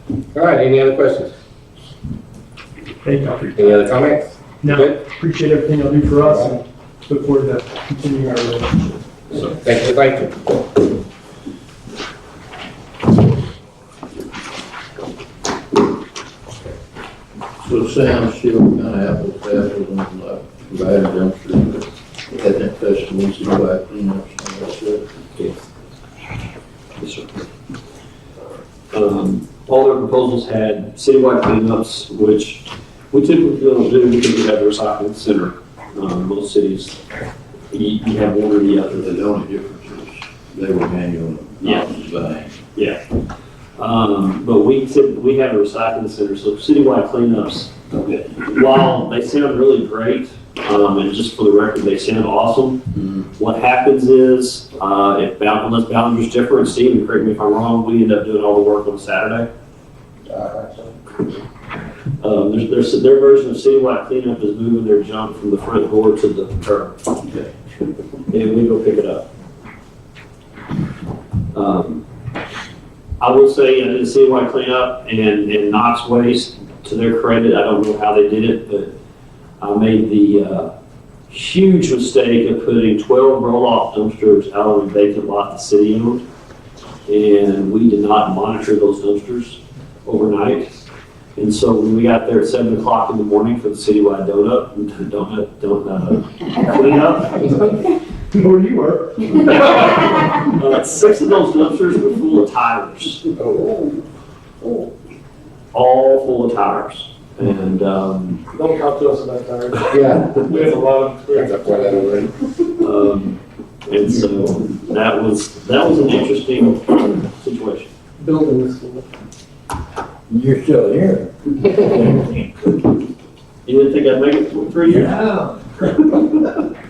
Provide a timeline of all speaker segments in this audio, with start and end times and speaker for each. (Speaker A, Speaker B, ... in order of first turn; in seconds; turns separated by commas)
Speaker A: 0.3-1.3, Speaker B: 3.0-3.8, Speaker A: 3.5-5.0, Speaker B: 4.6-8.9, Speaker A: 6.2-6.6, Speaker A: 9.3-10.3, Speaker C: 17.6-25.0, Speaker D: 27.0-27.4, Speaker D: 28.9-37.0, Speaker D: 37.7-39.1, Speaker C: 38.9-42.5, Speaker D: 41.6-41.9, Speaker D: 42.7-43.0, Speaker D: 43.8-52.8, Speaker D: 53.3-59.5, Speaker A: 60.3-60.6, Speaker D: 62.2-67.0, Speaker D: 68.3-69.3, Speaker D: 71.5-72.0, Speaker D: 73.2-78.9, Speaker D: 79.6-80.7, Speaker D: 81.3-86.2, Speaker D: 87.0-97.9, Speaker B: 98.3-99.4, Speaker D: 99.5-103.3, Speaker A: 103.4-103.9, Speaker D: 105.7-108.4, Speaker E: 108.5-112.3, Speaker A: 109.9-110.5, Speaker A: 111.3-112.3, Speaker D: 112.8-117.9, Speaker E: 118.2-119.0, Speaker C: 120.3-121.2, Speaker D: 123.6-126.6